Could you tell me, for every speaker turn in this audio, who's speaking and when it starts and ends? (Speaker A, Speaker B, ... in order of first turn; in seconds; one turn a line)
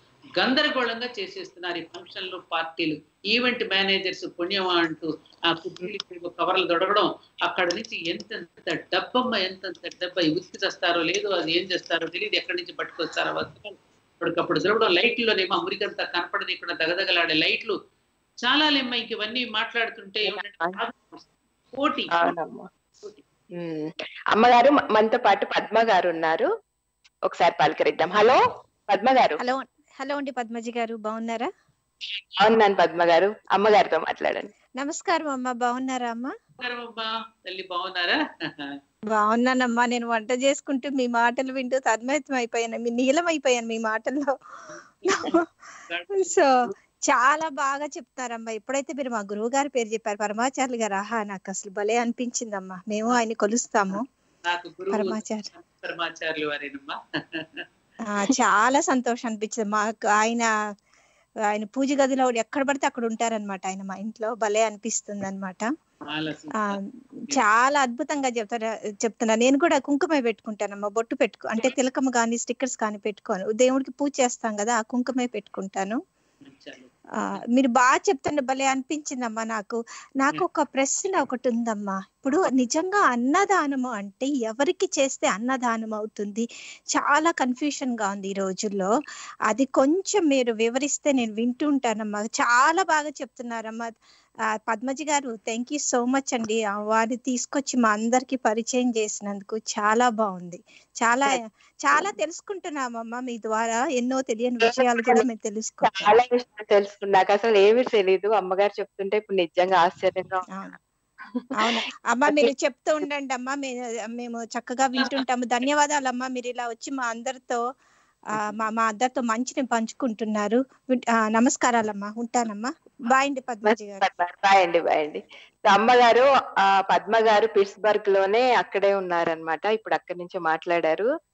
Speaker A: 0.4-17.8
Speaker A: 18.4-22.3
Speaker B: 20.3-20.8
Speaker B: 22.1-22.7
Speaker B: 23.6-26.5
Speaker B: 27.3-29.4
Speaker C: 29.4-31.5
Speaker B: 32.4-34.5
Speaker C: 34.8-36.3
Speaker A: 36.6-38.7
Speaker C: 39.1-44.3
Speaker A: 44.7-46.7
Speaker C: 45.1-45.4
Speaker C: 46.2-46.5
Speaker C: 47.1-54.0
Speaker A: 53.9-57.6
Speaker C: 54.9-55.5
Speaker C: 58.1-60.5
Speaker C: 61.5-65.7
Speaker A: 66.1-67.4
Speaker C: 67.3-76.0
Speaker A: 76.5-77.4
Speaker C: 77.6-88.9
Speaker C: 89.5-94.0
Speaker C: 94.7-106.1
Speaker B: 104.6-105.2
Speaker B: 105.8-110.5
Speaker C: 110.5-110.8
Speaker C: 111.6-117.6
Speaker A: 115.0-115.2
Speaker C: 118.4-124.1
Speaker B: 123.7-131.1